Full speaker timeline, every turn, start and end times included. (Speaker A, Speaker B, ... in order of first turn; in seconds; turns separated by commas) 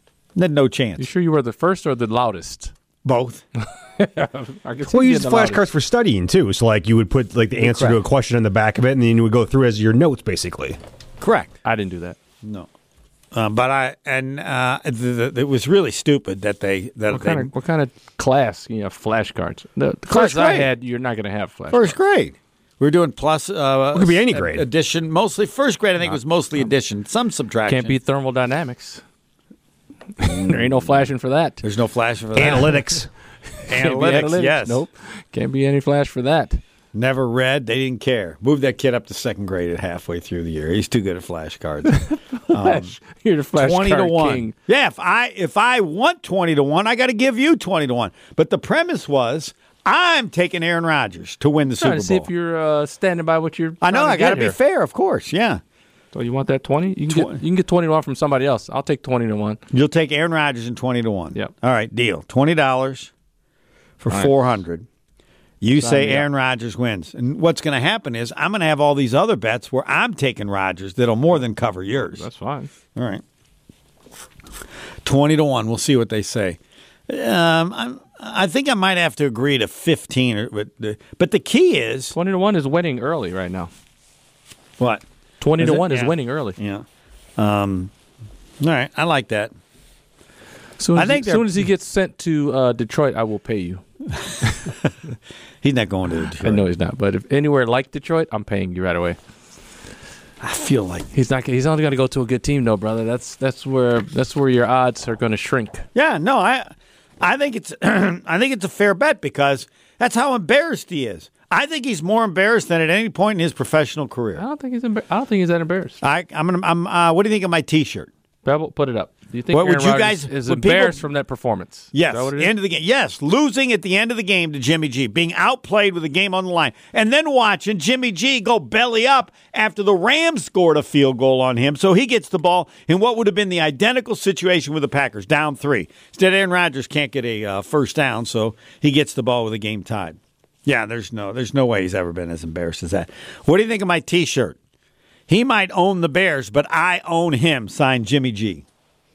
Speaker A: 0.3-1.1, Speaker B: 1.0-2.7, Speaker A: 3.0-3.4, Speaker B: 4.0-5.6, Speaker C: 4.9-10.8, Speaker A: 7.6-8.0, Speaker A: 11.2-11.6, Speaker B: 11.6-12.2, Speaker A: 12.4-12.7, Speaker A: 13.3-17.5, Speaker B: 17.1-22.0, Speaker A: 20.1-20.7, Speaker A: 21.7-28.0, Speaker C: 23.9-24.7, Speaker B: 26.0-26.7, Speaker B: 27.7-29.0, Speaker B: 30.2-31.6, Speaker A: 30.2-31.1, Speaker A: 31.6-32.8, Speaker C: 32.4-33.1, Speaker B: 32.4-32.8, Speaker B: 33.6-36.6, Speaker A: 33.7-34.8, Speaker A: 36.9-43.0, Speaker B: 41.9-44.5, Speaker A: 43.5-52.3, Speaker B: 51.8-54.6, Speaker A: 53.8-55.6, Speaker B: 56.1-59.6, Speaker A: 57.1-57.4, Speaker A: 59.7-63.1, Speaker A: 64.0-64.8, Speaker B: 64.1-64.6, Speaker A: 65.6-72.2, Speaker B: 65.7-66.3, Speaker B: 72.1-72.7, Speaker A: 73.0-73.2, Speaker A: 75.0-76.6, Speaker A: 77.1-82.1, Speaker B: 82.1-83.7, Speaker A: 84.8-85.0, Speaker B: 85.4-86.6, Speaker A: 85.6-86.8, Speaker A: 87.4-87.9, Speaker A: 88.6-89.5, Speaker B: 90.8-93.8, Speaker A: 91.0-91.7, Speaker A: 95.6-96.6, Speaker B: 96.4-99.2, Speaker A: 100.4-101.1, Speaker B: 101.1-105.8, Speaker A: 106.0-114.4, Speaker B: 114.4-116.0, Speaker A: 116.0-118.1, Speaker B: 118.5-122.5, Speaker A: 119.5-121.0, Speaker A: 121.9-144.6, Speaker A: 145.3-148.6